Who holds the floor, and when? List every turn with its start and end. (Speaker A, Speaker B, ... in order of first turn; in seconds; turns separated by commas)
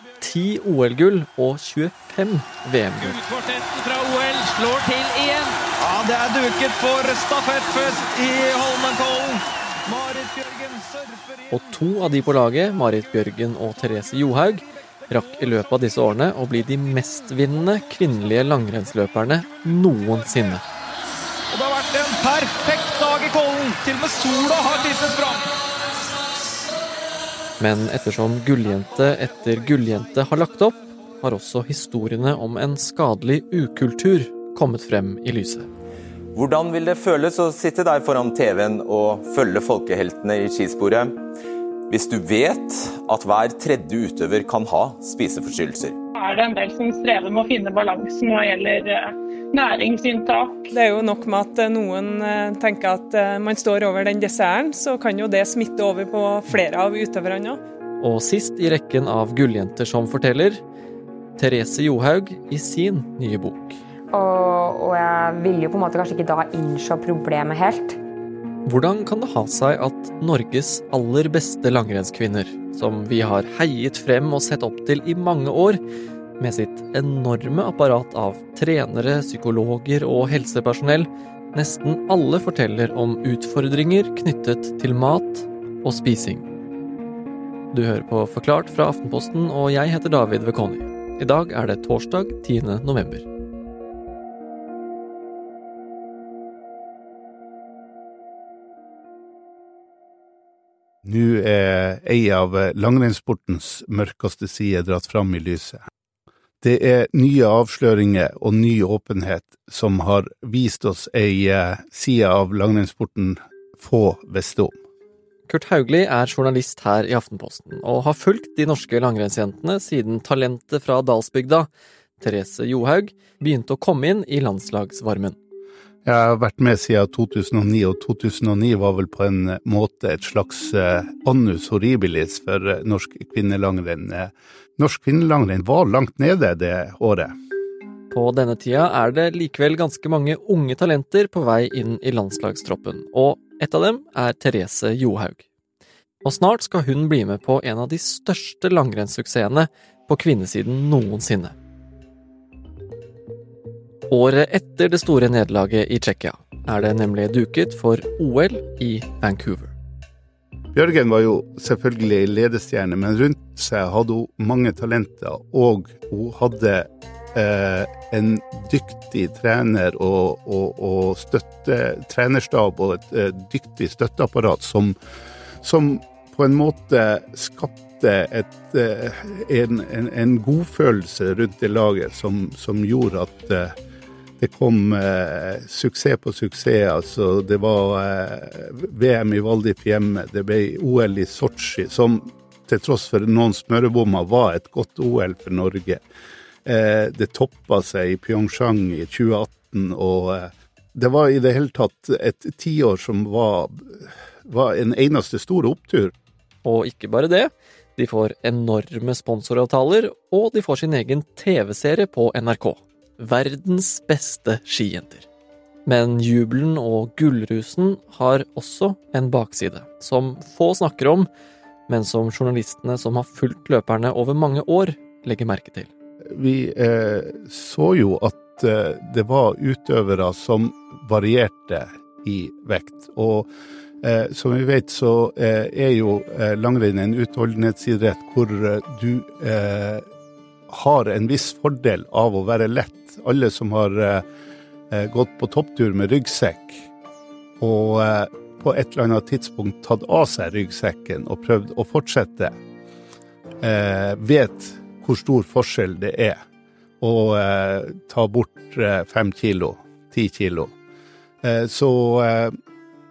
Speaker A: 0.2-3.2, Speaker B: 3.0-11.6, Speaker A: 11.5-20.6, Speaker B: 21.5-25.5, Speaker A: 27.6-35.7, Speaker C: 36.3-41.2, Speaker C: 41.9-46.0, Speaker D: 46.2-50.7, Speaker E: 50.7-57.6, Speaker A: 58.0-60.6, Speaker A: 61.4-63.8, Speaker F: 64.1-68.0, Speaker A: 68.7-75.8, Speaker A: 76.4-86.5, Speaker A: 87.7-93.2, Speaker G: 101.0-105.8, Speaker G: 106.6-114.8, Speaker A: 115.5-125.3, Speaker G: 126.0-137.3, Speaker A: 138.1-145.4, Speaker A: 146.2-151.6, Speaker A: 154.1-159.7, Speaker G: 160.7-174.9, Speaker G: 175.6-183.8, Speaker G: 184.4-196.0, Speaker G: 196.6-206.1, Speaker A: 206.6-215.3, Speaker A: 215.8-221.3, Speaker A: 221.9-225.9, Speaker G: 226.3-233.5, Speaker G: 234.0-240.0, Speaker G: 240.7-244.2, Speaker G: 244.9-246.9, Speaker G: 247.6-252.5, Speaker G: 253.6-256.4, Speaker G: 257.0-260.7, Speaker G: 261.4-262.5